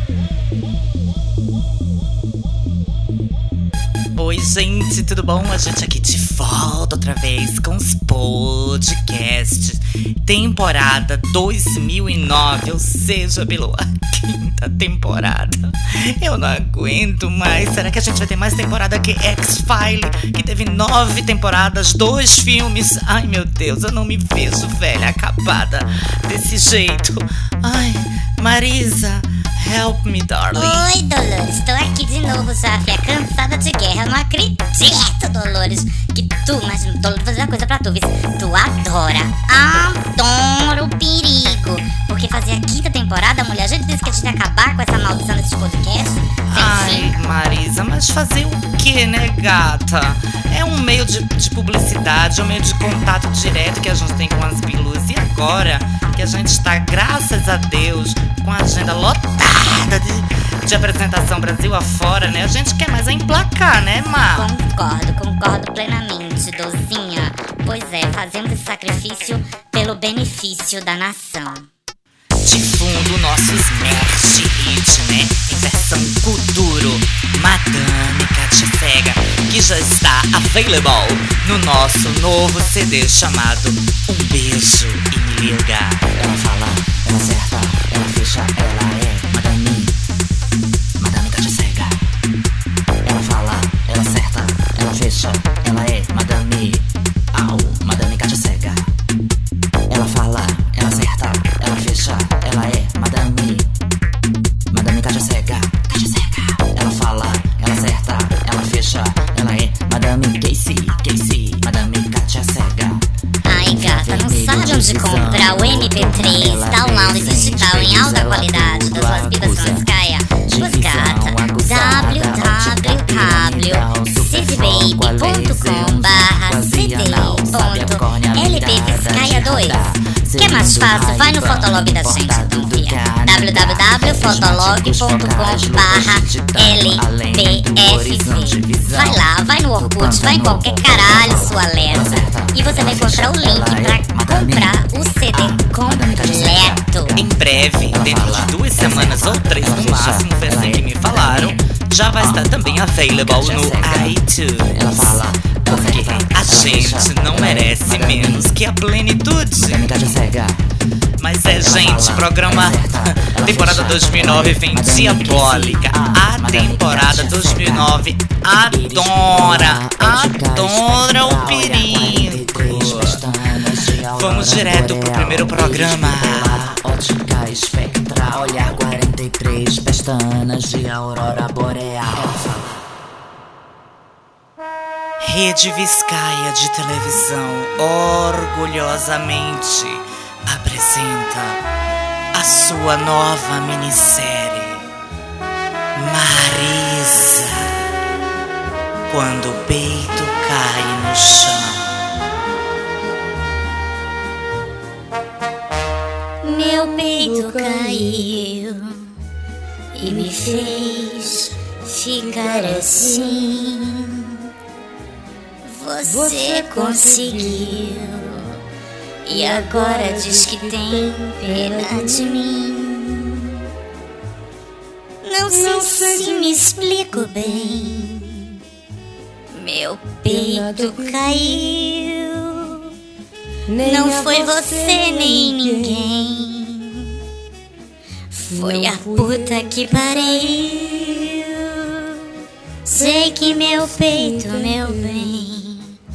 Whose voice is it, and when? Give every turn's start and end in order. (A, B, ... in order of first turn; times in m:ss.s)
0:04.1-0:30.9 A
0:30.5-0:47.1 B
0:46.5-1:04.5 A
1:04.3-1:11.7 B
1:12.4-1:26.0 A
1:26.1-1:30.0 C
1:31.0-1:32.0 C
1:33.0-1:38.9 C
1:39.9-1:43.7 C
1:44.7-1:53.1 C
1:53.4-2:09.8 B
1:53.6-1:59.9 C
2:00.4-2:24.8 C
2:10.4-2:27.2 B
2:25.3-2:27.3 C
2:27.2-2:39.9 A
2:27.9-2:31.6 C
2:32.2-2:34.2 C
2:34.7-2:38.6 C
2:39.6-2:40.6 C
2:41.2-2:53.3 A
2:41.6-2:48.0 C
2:48.7-3:02.8 C
2:54.1-2:56.8 A
3:05.2-3:11.6 A
3:12.3-3:14.8 A
3:16.0-3:17.8 A
3:19.1-3:21.9 A
3:26.4-3:29.1 B
3:29.9-3:34.4 B
3:35.6-3:38.6 B
3:39.2-3:43.5 B
3:45.2-3:48.2 B
3:49.5-3:52.9 B
3:53.8-3:57.1 B
3:58.3-4:02.3 B
4:02.8-4:05.9 B